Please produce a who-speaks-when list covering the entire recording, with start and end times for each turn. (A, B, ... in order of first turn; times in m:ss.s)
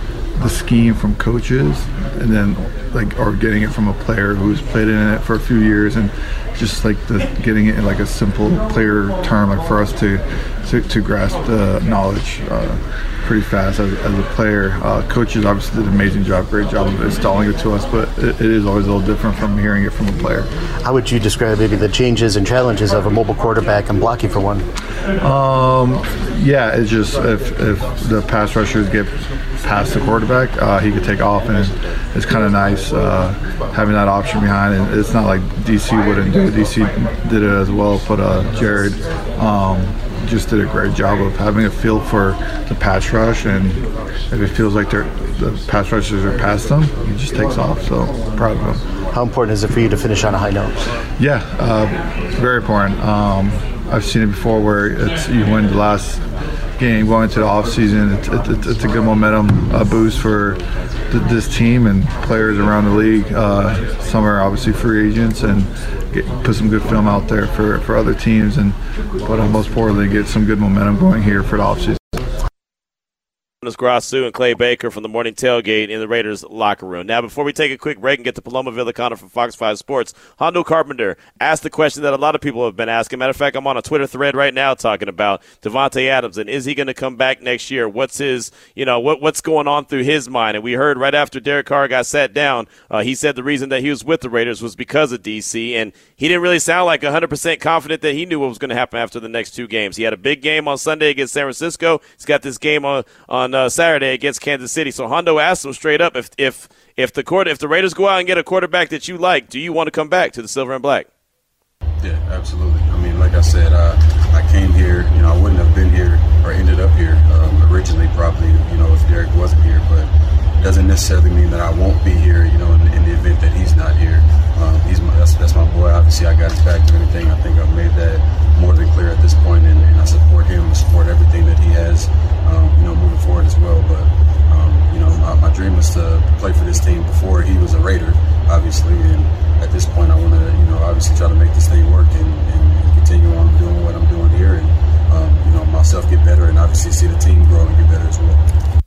0:00.4-0:20.5 A
0:20.8-0:24.6 B
0:25.2-0:43.8 A
0:44.3-0:48.8 A
0:49.1-0:50.8 B
0:51.2-0:56.2 A
0:56.8-1:00.6 A
1:01.1-1:12.1 A
1:13.6-1:51.1 C
1:52.0-2:00.1 D
2:00.6-2:28.4 D